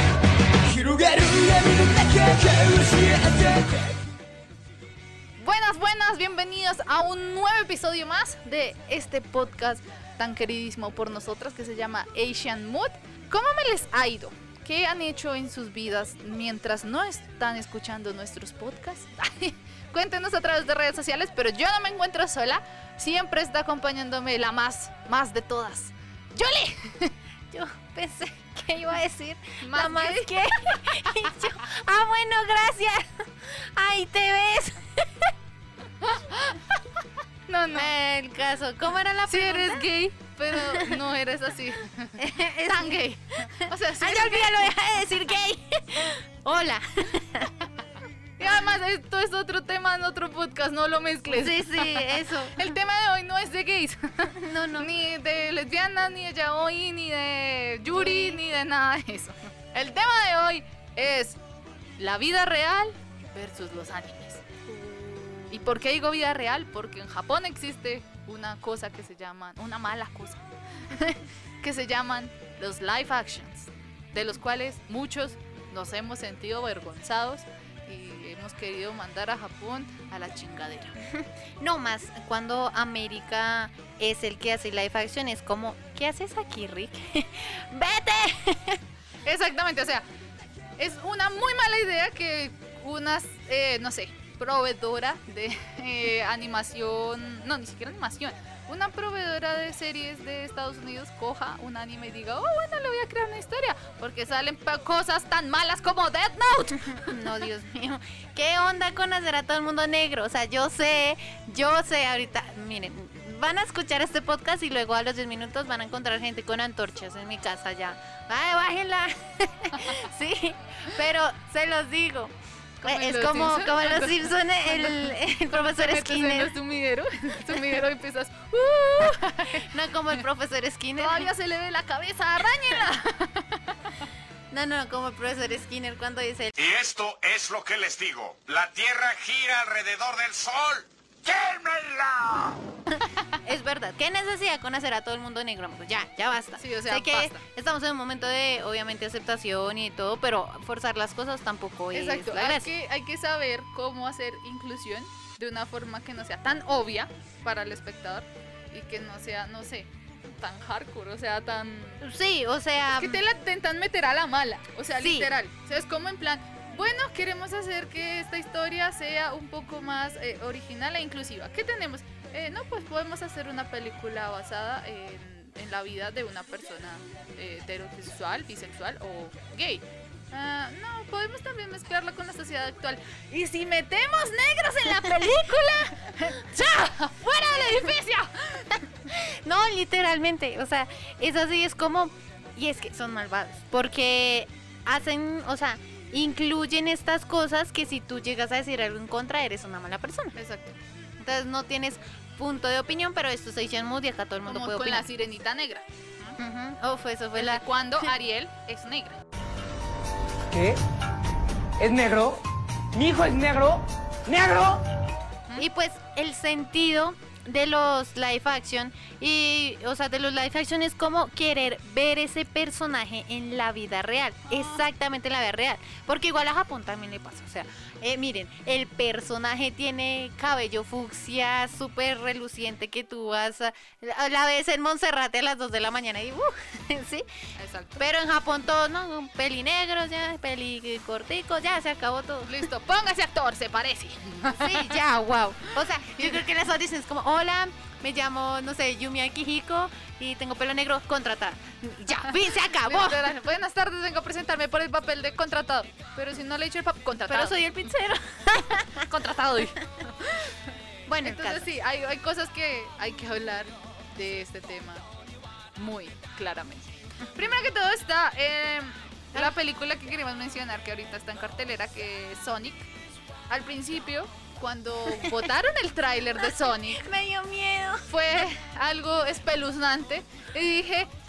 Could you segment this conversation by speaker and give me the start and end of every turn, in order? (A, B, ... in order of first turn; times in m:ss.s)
0:00.7-0:04.0 A
0:05.4-0:27.1 B
0:27.5-0:35.3 C
0:29.6-0:31.3 B
0:36.0-0:36.8 B
0:37.5-0:37.9 B
0:37.7-0:39.9 C
0:39.3-0:44.6 B
0:40.5-0:41.0 C
0:42.2-0:47.5 C
0:48.4-1:01.4 B
0:51.3-0:52.6 C
0:54.4-0:54.9 C
0:57.9-0:58.4 C
1:02.0-1:04.4 B
1:04.7-1:05.6 C
1:05.5-1:21.0 B
1:21.0-1:28.8 C
1:29.2-1:30.0 B
1:30.8-1:47.1 B
1:47.0-2:06.6 C
2:02.8-2:10.2 B
2:09.0-2:11.3 C
2:11.0-2:13.9 B
2:14.5-2:16.6 C
2:16.6-2:22.6 D
2:23.4-2:32.7 C
2:26.6-2:27.4 B
2:31.9-2:42.0 B
2:42.0-2:43.2 C
2:43.0-3:08.8 B
2:45.0-2:45.3 C
3:09.1-3:20.4 C
3:20.4-3:20.8 B
3:21.2-3:25.0 C
3:24.5-3:26.4 B
3:26.4-3:27.6 C
3:27.4-3:29.2 B
3:30.5-3:30.8 A
3:31.8-3:32.4 A
3:32.9-3:34.8 A
3:35.6-3:57.3 C
3:57.6-3:58.0 B
3:58.0-4:02.6 C
4:02.5-4:05.0 B
4:04.5-4:13.3 C
4:06.2-4:06.4 B
4:12.6-4:17.7 B
4:17.3-4:19.8 C
4:19.0-4:20.7 B
4:21.1-4:21.7 C
4:21.2-4:25.1 B
4:25.8-4:32.9 B
4:33.5-4:37.0 B
4:35.1-4:35.4 C
4:36.4-4:38.4 C
4:38.1-4:41.1 B